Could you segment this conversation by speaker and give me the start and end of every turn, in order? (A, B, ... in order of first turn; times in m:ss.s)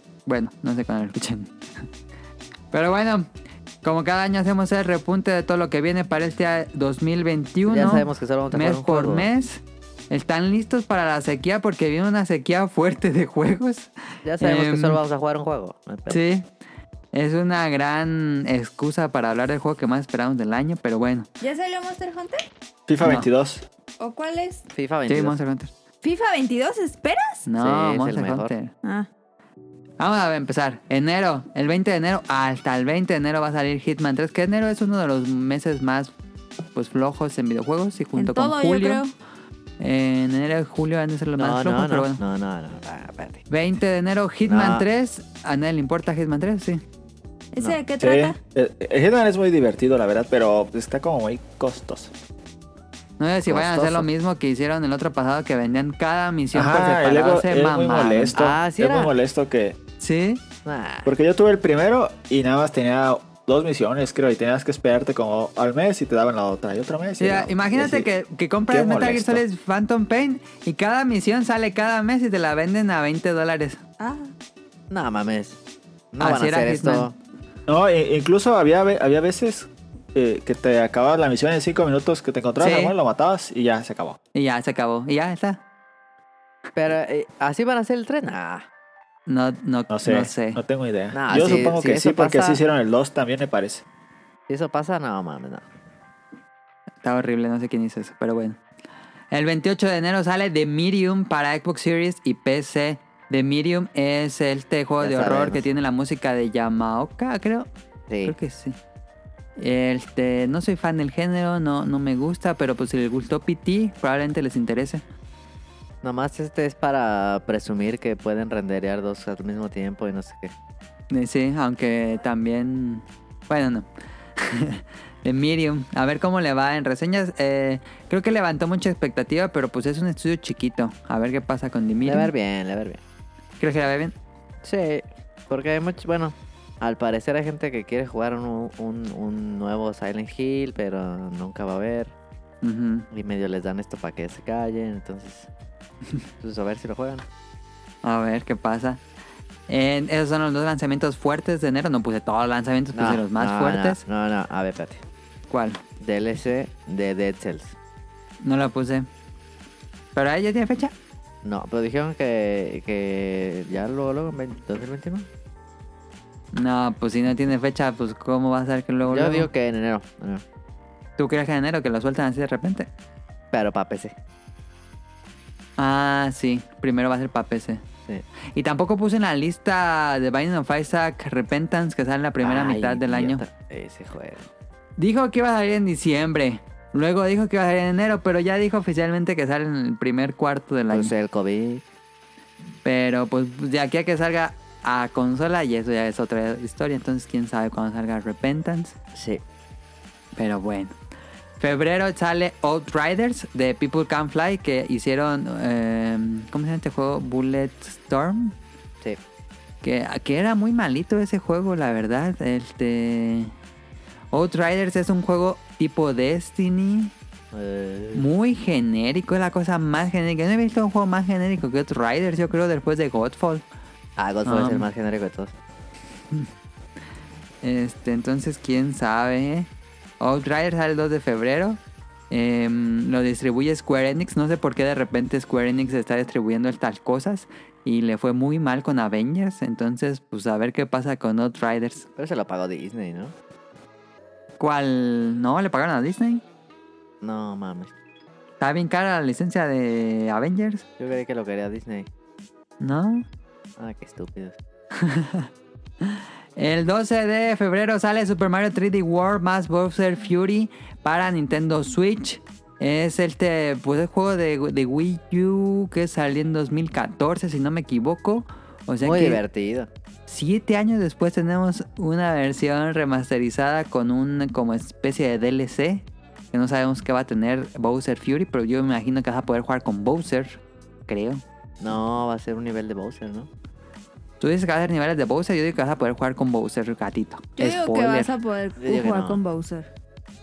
0:00.3-0:01.5 A
0:02.7-0:03.3 A
0:03.8-0:15.0 A
0:07.7-0:09.3 B
0:14.2-0:16.2 B
0:16.1-0:16.5 A
0:17.1-0:21.3 A
0:21.4-0:22.5 C
0:22.9-0:23.6 D
0:23.0-0:23.3 A
0:24.0-0:24.6 C
0:24.7-0:25.4 B
0:25.1-0:25.7 A
0:26.0-0:27.5 C
0:27.5-0:28.7 A
0:27.6-0:28.5 B
0:28.8-0:29.1 C
0:30.0-0:36.1 A
0:36.8-0:39.0 A
0:38.2-0:39.1 C
0:39.8-0:42.2 A
0:41.4-0:43.4 B
0:43.5-0:46.8 A
0:44.5-0:44.8 B
0:47.5-0:48.4 C
0:48.0-0:52.1 D
0:53.2-0:58.4 A
0:53.5-0:54.1 B
0:56.5-0:59.8 D
0:58.4-0:59.1 B
1:00.0-1:00.4 A
1:00.6-1:01.1 B
1:01.0-1:08.1 D
1:07.2-1:13.8 A
1:08.7-1:09.4 D
1:14.0-1:14.3 C
1:14.9-1:15.6 B
1:16.1-1:17.1 B
1:16.2-1:17.1 A
1:17.7-1:24.2 D
1:22.6-1:23.0 A
1:24.4-1:25.6 A
1:26.8-1:28.7 B
1:29.3-1:30.6 A
1:29.9-1:33.8 D
1:31.1-1:32.6 B
1:34.5-1:35.6 B
1:37.0-1:38.6 A
1:39.3-1:47.7 A
1:45.0-1:45.6 B
1:48.1-1:48.4 B
1:48.2-1:48.8 A
1:49.6-1:55.0 A
1:56.0-2:00.5 B
2:01.1-2:03.9 A
2:04.4-2:12.3 A
2:12.0-2:13.0 B
2:13.6-2:14.1 A
2:14.6-2:22.1 B
2:22.6-2:23.1 A
2:23.1-2:25.5 B
2:26.4-2:27.2 B
2:28.0-2:29.0 A
2:29.7-2:34.0 A
2:32.9-2:35.0 B
2:35.5-2:35.8 A
2:36.0-2:37.8 B
2:38.4-2:39.1 A
2:40.2-2:40.9 A
2:41.4-2:45.3 B
2:46.5-2:49.5 A
2:49.0-2:50.4 B
2:51.2-2:52.9 A
2:53.5-2:54.2 B
2:55.8-2:57.8 A
2:58.5-3:03.4 A
3:02.4-3:04.5 B
3:05.0-3:11.1 A
3:10.9-3:11.8 B
3:12.8-3:19.0 A
3:19.2-3:19.4 B
3:20.4-3:20.9 A
3:21.6-3:28.6 A
3:29.8-3:33.5 A
3:34.3-3:37.1 A
3:37.5-3:38.3 B
3:38.2-3:43.6 A
3:44.2-3:45.5 B
3:44.5-3:44.9 A
3:47.6-3:49.7 A
3:50.2-3:51.8 A
3:52.3-4:02.1 A
4:02.2-4:03.3 B
4:04.6-4:06.4 A
4:07.2-4:07.9 B
4:08.6-4:10.8 A
4:11.0-4:12.1 B
4:12.8-4:13.2 A
4:13.8-4:14.6 B
4:15.0-4:15.5 A
4:16.0-4:29.4 A
4:29.0-4:29.9 B
4:30.3-4:41.4 A
4:41.8-4:43.5 B
4:44.4-4:48.3 A
4:47.6-4:49.9 C
4:48.8-4:49.4 B